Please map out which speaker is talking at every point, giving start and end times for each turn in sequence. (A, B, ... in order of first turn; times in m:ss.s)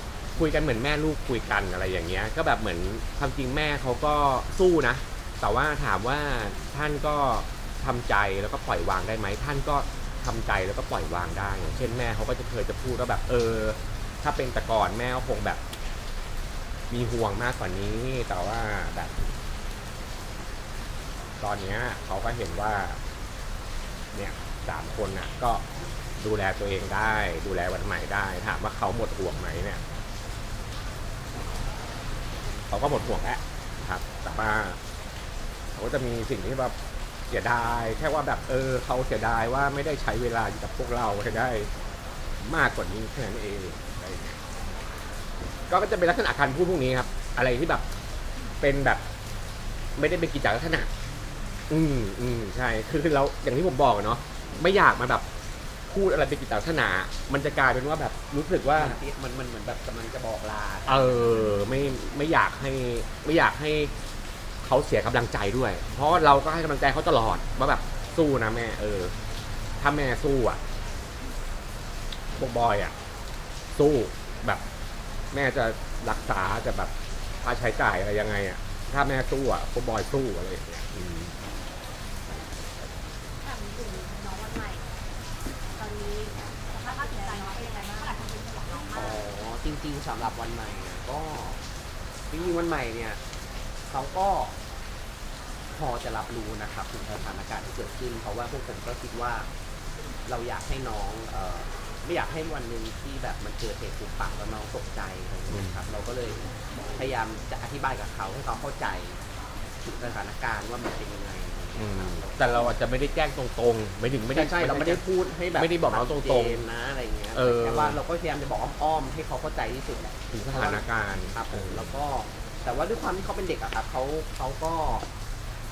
0:00.3-0:15.6 A
0:16.9-0:19.2 A
0:21.4-0:23.0 A
0:24.1-0:25.6 A
0:26.2-0:29.8 A
0:32.7-0:34.8 A
0:35.8-0:36.7 A
0:37.3-0:41.7 A
0:42.4-0:44.4 A
0:45.7-0:47.8 A
0:48.6-0:49.0 A
0:50.0-0:50.9 A
0:51.7-0:55.2 A
0:55.9-0:59.0 A
0:58.7-1:01.1 B
1:00.9-1:03.9 A
1:04.6-1:09.1 A
1:09.8-1:10.6 A
1:12.4-1:12.9 A
1:13.7-1:14.6 A
1:15.3-1:21.3 A
1:23.4-1:24.8 C
1:25.8-1:29.2 C
1:28.9-1:31.6 B
1:32.3-1:33.2 B
1:33.9-1:34.6 B
1:35.7-1:39.5 B
1:40.2-1:46.4 B
1:45.5-1:45.8 A
1:46.9-1:49.2 B
1:49.8-1:52.4 B
1:51.8-1:55.0 A
1:54.3-2:05.1 B
1:55.5-1:56.6 A
1:57.3-1:58.0 A
2:00.3-2:01.9 A